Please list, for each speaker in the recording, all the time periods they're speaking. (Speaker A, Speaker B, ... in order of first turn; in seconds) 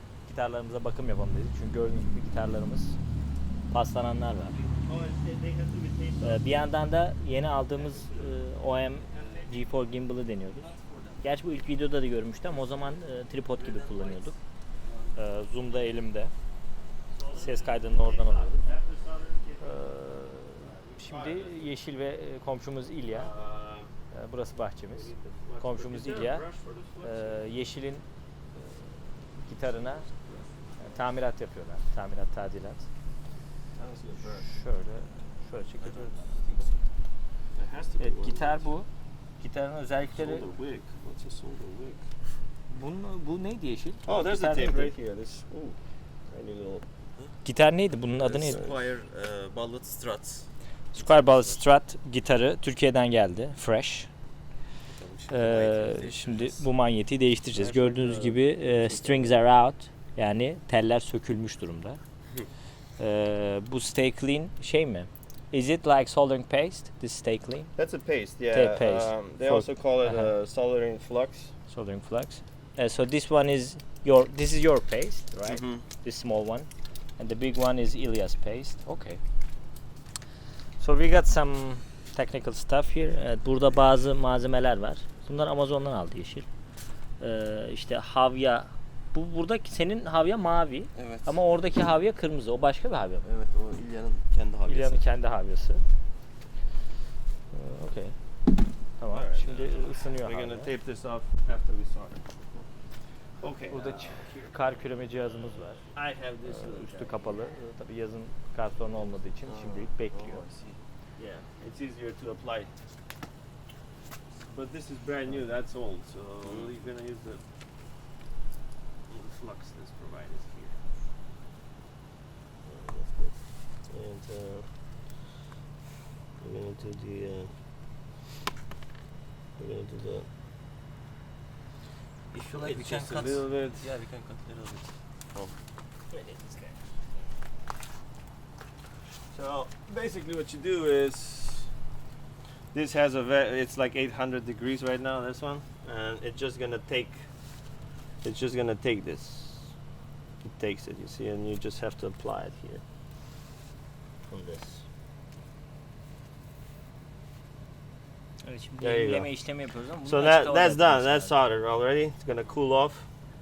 Speaker A: 0.2-3.0, 3.7-4.6, 6.2-14.4, 15.2-16.3, 17.3-18.6, 19.6-23.3, 24.1-26.4, 27.0-30.1, 30.8-32.9, 34.2-36.3, 38.0-38.9, 39.4-40.5, 42.7-44.9, 47.4-48.6, 50.9-54.1, 55.3-62.0, 63.0-67.7, 68.5-70.3, 71.7-79.2, 80.8-86.5, 87.2-93.3, 94.7-95.8, 97.5-98.2, 99.0-100.7, 103.7-105.9, 106.5-110.5, 158.4-161.4
Speaker B: 4.8-6.7, 7.8-8.4, 9.1-9.5, 13.6-15.1, 17.1-21.8, 23.1-23.9, 24.9-27.5, 30.1-31.0, 33.8-34.5, 37.5-38.7, 44.0-46.9, 48.3-48.8, 57.5-59.4, 67.8-71.6, 99.1-102.5, 103.4-104.5, 105.9-107.5, 111.2-112.7, 114.4-117.5, 119.1-120.8, 122.6-125.1, 126.4-127.6, 129.6-130.3, 132.4-133.9, 136.1-136.8, 139.3-141.8, 142.7-147.4, 148.2-149.8, 150.4-152.8, 154.3-154.8, 158.8-159.3, 160.0-163.1
Speaker C: 10.6-11.2, 35.8-36.9, 40.2-42.0, 48.2-51.6, 54.9-56.7, 75.5-75.8, 91.0-91.4, 93.2-95.0, 109.4-110.8, 116.4-116.7, 132.3-135.6